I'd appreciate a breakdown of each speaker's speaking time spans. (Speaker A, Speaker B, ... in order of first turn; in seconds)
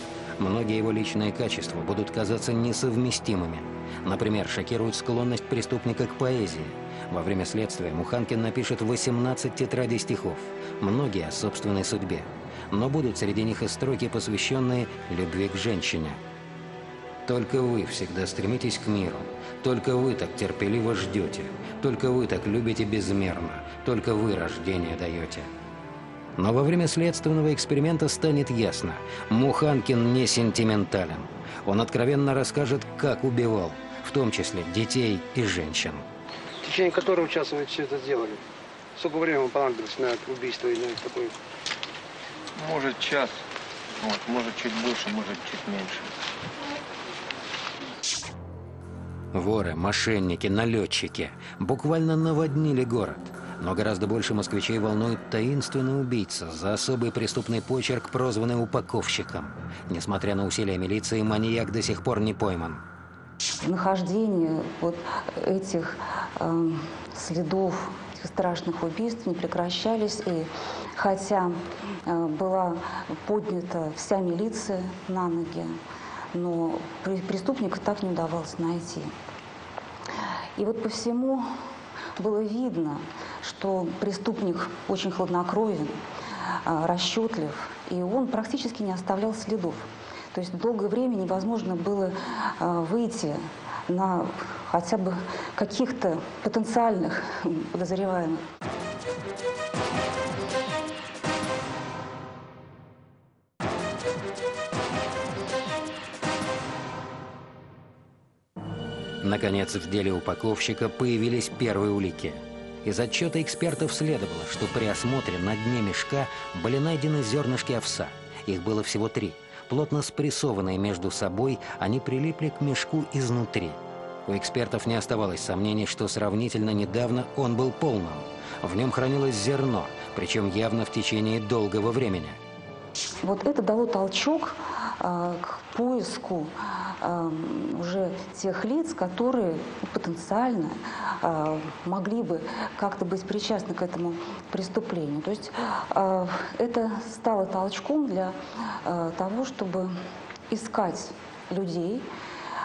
Speaker A: 0.4-16.2, 17.2-25.5, 26.4-36.0, 49.3-62.8, 109.2-132.4
Speaker B: 36.6-38.4, 39.0-41.3
Speaker C: 42.6-43.4, 44.0-46.1
Speaker D: 63.6-75.8, 76.3-79.1, 80.6-81.5, 82.2-86.0, 86.5-98.4, 133.2-149.9, 150.5-152.1